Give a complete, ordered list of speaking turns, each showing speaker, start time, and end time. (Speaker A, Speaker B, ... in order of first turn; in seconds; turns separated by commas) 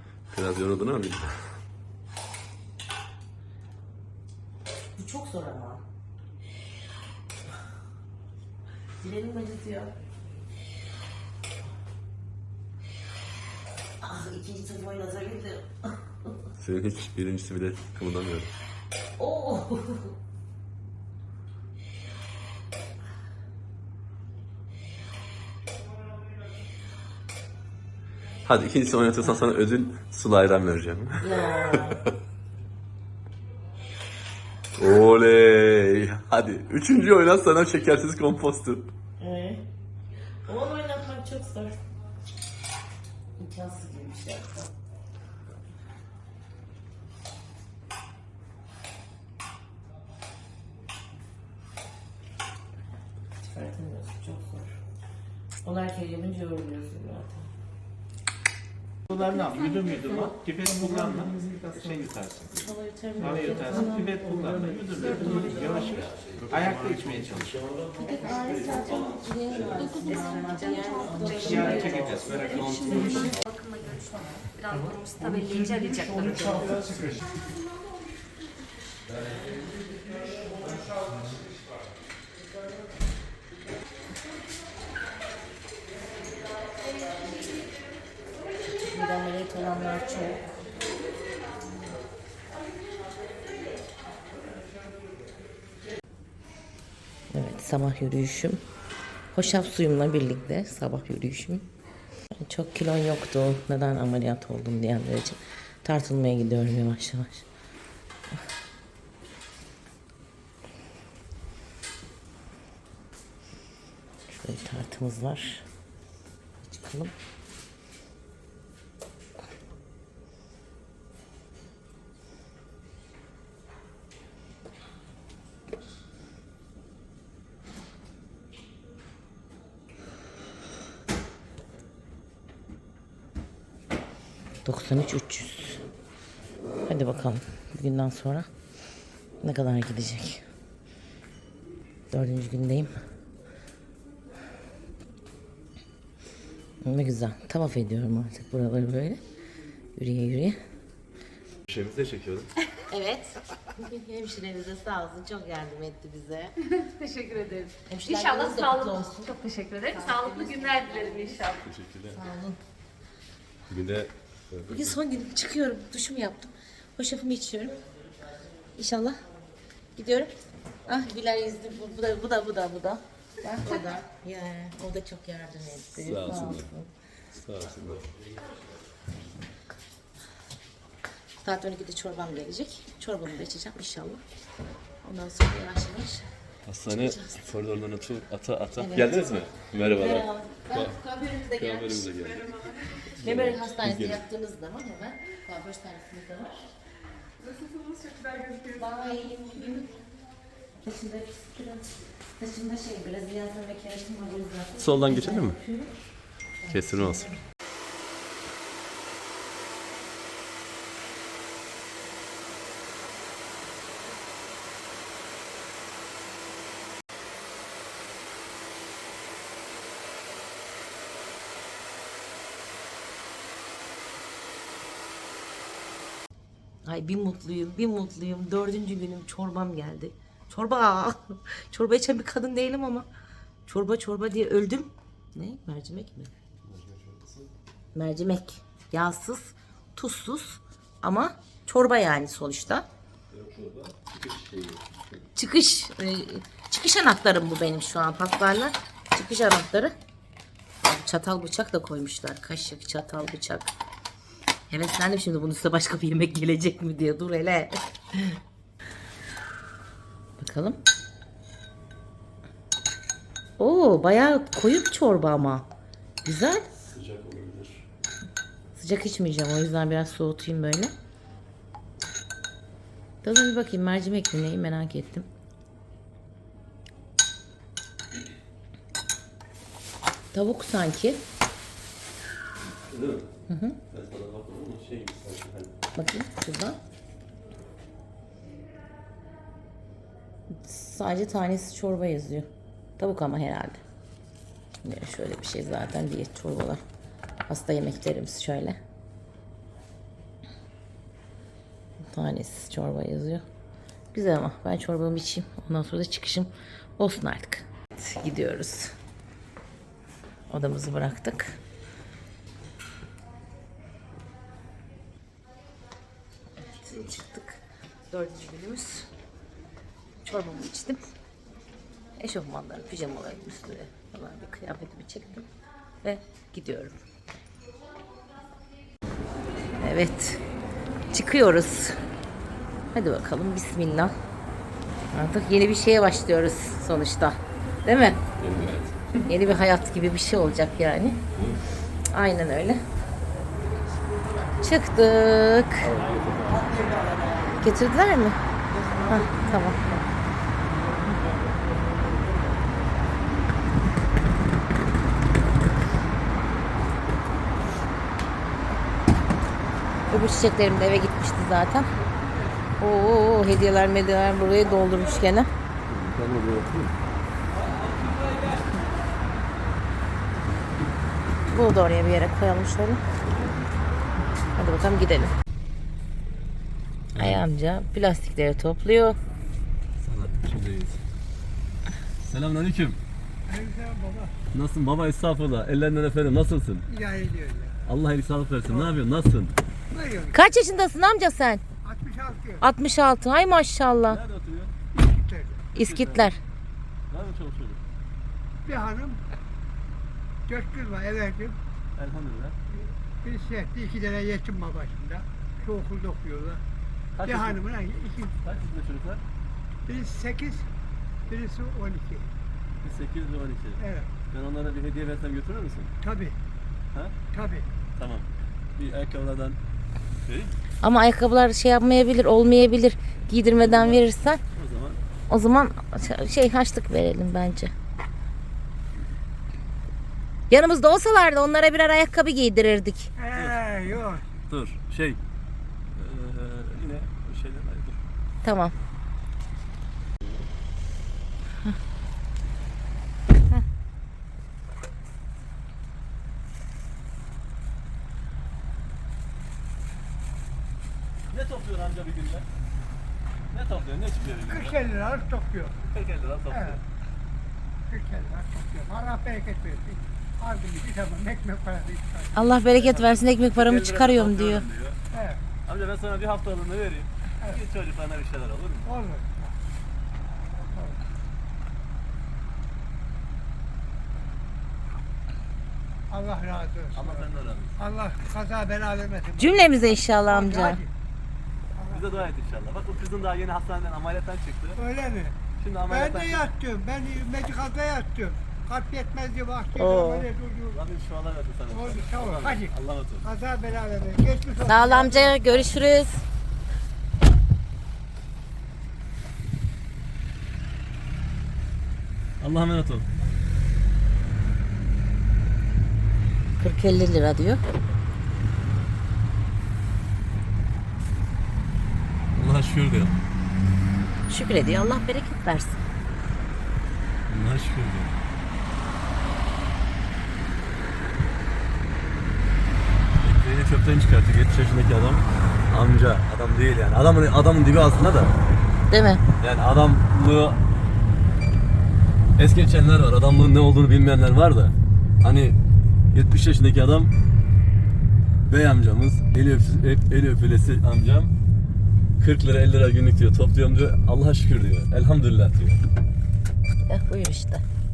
Speaker A: 0.3-1.5, Speaker B: 4.9-5.8, Speaker B: 9.0-9.9, Speaker B: 14.0-16.4, Speaker A: 16.6-18.5, Speaker B: 19.2-20.1, Speaker A: 28.4-32.1, Speaker B: 31.2-32.0, Speaker A: 34.8-38.9, Speaker B: 39.2-39.6, Speaker B: 40.5-41.8, Speaker B: 43.4-44.7, Speaker B: 53.4-54.8, Speaker B: 55.6-57.5, Speaker C: 59.1-62.5, Speaker B: 62.5-65.9, Speaker C: 63.2-67.6, Speaker B: 67.9-72.6, Speaker D: 69.7-76.8, Speaker C: 71.4-73.4, Speaker C: 76.2-77.1, Speaker B: 88.6-90.5, Speaker B: 97.3-98.6, Speaker B: 99.3-101.7, Speaker B: 102.3-107.5, Speaker B: 114.3-115.6, Speaker B: 116.6-117.1, Speaker B: 134.6-135.8, Speaker B: 136.8-138.5, Speaker B: 139.4-140.4, Speaker B: 142.1-142.9, Speaker B: 146.8-149.2, Speaker B: 149.9-150.6, Speaker A: 151.7-152.5, Speaker B: 152.7-156.6, Speaker D: 156.7-161.6, Speaker B: 157.8-161.5, Speaker A: 161.6-162.2, Speaker B: 162.1-162.6, Speaker A: 163.7-165.0, Speaker B: 164.7-167.8, Speaker B: 168.8-169.2, Speaker B: 169.9-170.3, Speaker B: 170.8-176.9, Speaker A: 176.0-176.7, Speaker A: 177.3-178.1, Speaker B: 181.4-184.2, Speaker B: 185.0-186.3, Speaker A: 186.7-191.0, Speaker B: 186.9-187.5, Speaker B: 188.8-192.3, Speaker A: 191.5-194.2, Speaker B: 193.0-196.7, Speaker B: 198.6-200.0, Speaker B: 200.8-205.9, Speaker A: 204.8-205.6, Speaker B: 206.6-207.4, Speaker A: 206.7-207.3, Speaker B: 226.8-233.1, Speaker B: 233.7-236.3, Speaker A: 236.6-237.5, Speaker B: 237.9-242.8, Speaker A: 243.3-245.2, Speaker B: 245.3-249.9, Speaker B: 250.8-253.7, Speaker B: 254.7-258.4, Speaker B: 260.4-260.8, Speaker B: 263.6-265.7, Speaker B: 266.2-266.7, Speaker A: 266.7-267.9, Speaker B: 268.7-270.9, Speaker B: 273.2-275.3, Speaker B: 280.3-281.2, Speaker A: 282.9-283.3, Speaker B: 283.5-283.8, Speaker A: 283.9-285.7, Speaker B: 285.9-286.8, Speaker B: 290.5-293.8, Speaker B: 294.8-296.8, Speaker B: 297.5-298.8, Speaker B: 302.1-303.4, Speaker B: 304.1-308.9, Speaker B: 310.5-311.6, Speaker B: 316.6-319.1, Speaker B: 320.2-321.0, Speaker B: 322.2-325.5, Speaker B: 326.0-327.0, Speaker B: 329.8-330.4, Speaker B: 331.1-332.0, Speaker B: 332.9-334.1, Speaker B: 335.1-338.2, Speaker A: 338.4-339.1, Speaker B: 339.2-341.2, Speaker B: 342.1-342.8, Speaker B: 344.6-345.9, Speaker A: 345.8-347.0, Speaker B: 347.5-348.4, Speaker B: 349.1-350.0, Speaker B: 360.1-361.9, Speaker B: 362.8-365.5, Speaker A: 365.9-367.0, Speaker B: 371.5-373.0, Speaker B: 374.5-375.3, Speaker A: 377.1-377.4, Speaker B: 377.1-379.2, Speaker A: 380.0-381.0, Speaker A: 382.2-383.0, Speaker E: 383.5-384.3, Speaker A: 384.5-386.9, Speaker E: 386.9-387.8, Speaker A: 387.9-389.6, Speaker E: 388.7-388.9, Speaker E: 389.9-390.4, Speaker B: 390.3-391.6, Speaker E: 391.8-392.6, Speaker B: 392.6-394.2, Speaker A: 394.1-394.7, Speaker E: 394.9-395.7, Speaker B: 395.7-396.4, Speaker A: 395.8-396.3, Speaker A: 397.1-397.8, Speaker E: 398.6-399.2, Speaker E: 400.5-401.6, Speaker A: 401.9-402.6, Speaker E: 403.2-406.6, Speaker A: 407.2-407.6, Speaker E: 407.2-408.3, Speaker A: 408.4-409.2, Speaker E: 409.9-410.7, Speaker E: 411.3-412.3, Speaker A: 412.8-415.9, Speaker E: 413.8-414.1, Speaker E: 416.0-416.4, Speaker E: 417.3-417.7, Speaker A: 418.0-419.6, Speaker A: 420.2-420.5, Speaker B: 420.8-424.4, Speaker A: 423.6-425.0, Speaker B: 425.3-427.7, Speaker B: 430.5-433.1, Speaker E: 433.2-434.2, Speaker A: 433.3-433.6, Speaker A: 434.5-435.2, Speaker A: 435.9-438.0, Speaker B: 438.4-438.7, Speaker A: 451.3-452.5, Speaker A: 453.5-454.8, Speaker E: 454.5-455.8, Speaker A: 455.9-456.8, Speaker E: 456.5-456.8, Speaker E: 457.9-462.3, Speaker B: 462.3-464.6, Speaker A: 462.7-465.0, Speaker E: 465.1-465.4, Speaker A: 465.6-468.9, Speaker E: 468.8-469.5, Speaker E: 470.7-471.0, Speaker E: 476.1-477.2, Speaker A: 476.9-477.8, Speaker E: 477.8-480.9, Speaker B: 479.4-480.8, Speaker E: 481.8-482.1, Speaker A: 481.9-484.8, Speaker E: 484.8-490.8, Speaker A: 485.6-486.5, Speaker B: 489.8-490.3, Speaker A: 490.7-493.2, Speaker E: 491.7-495.7, Speaker B: 494.6-496.2, Speaker A: 502.4-503.1, Speaker B: 506.6-507.6, Speaker A: 512.3-513.2, Speaker B: 514.3-515.8, Speaker A: 517.3-518.2, Speaker A: 523.2-528.3, Speaker B: 528.9-529.2, Speaker A: 529.4-530.6, Speaker A: 532.4-535.6, Speaker A: 536.1-537.1, Speaker A: 538.5-541.3, Speaker A: 542.2-545.8, Speaker B: 546.9-547.6